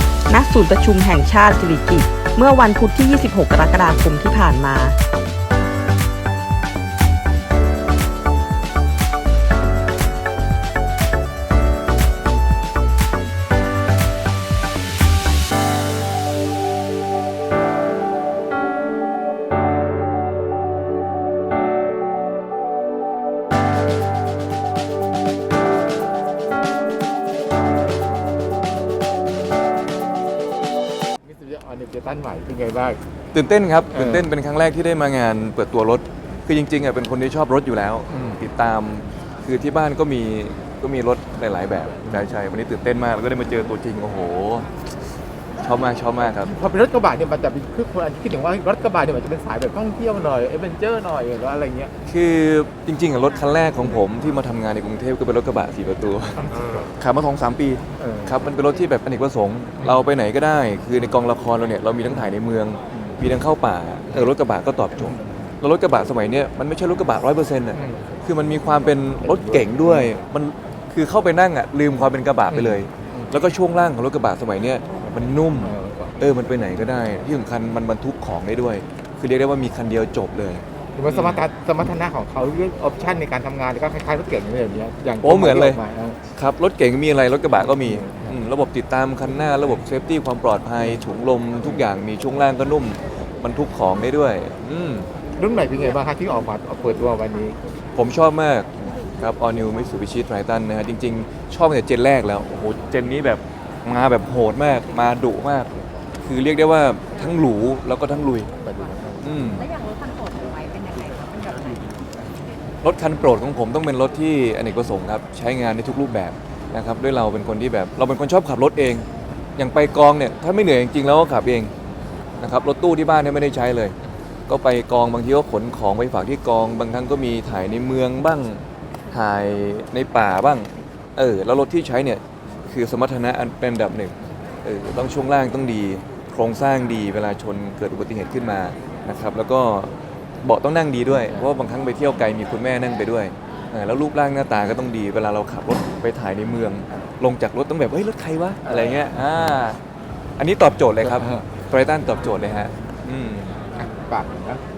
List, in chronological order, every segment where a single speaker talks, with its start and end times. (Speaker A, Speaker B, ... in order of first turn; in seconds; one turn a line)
Speaker A: 0.3-5.0
Speaker B: 31.2-33.0
Speaker C: 33.3-44.7
Speaker B: 34.0-34.2
Speaker B: 38.1-38.4
Speaker C: 45.6-46.5
Speaker B: 46.4-51.9
Speaker C: 52.0-81.4
Speaker B: 56.4-56.9
Speaker B: 58.0-58.3
Speaker B: 65.1-65.5
Speaker B: 67.7-68.1
Speaker B: 69.2-70.2
Speaker B: 72.5-73.3
Speaker B: 75.6-76.2
Speaker B: 81.0-86.2
Speaker C: 85.2-85.8
Speaker C: 86.3-95.1
Speaker B: 87.8-88.3
Speaker B: 95.4-97.6
Speaker C: 98.0-105.7
Speaker C: 106.2-108.5
Speaker B: 108.7-109.3
Speaker C: 109.2-109.7
Speaker D: 109.6-112.0
Speaker C: 112.8-121.7
Speaker C: 122.4-124.0
Speaker C: 124.5-149.8
Speaker B: 148.7-148.9
Speaker C: 150.4-153.6
Speaker B: 151.0-151.5
Speaker B: 153.8-154.6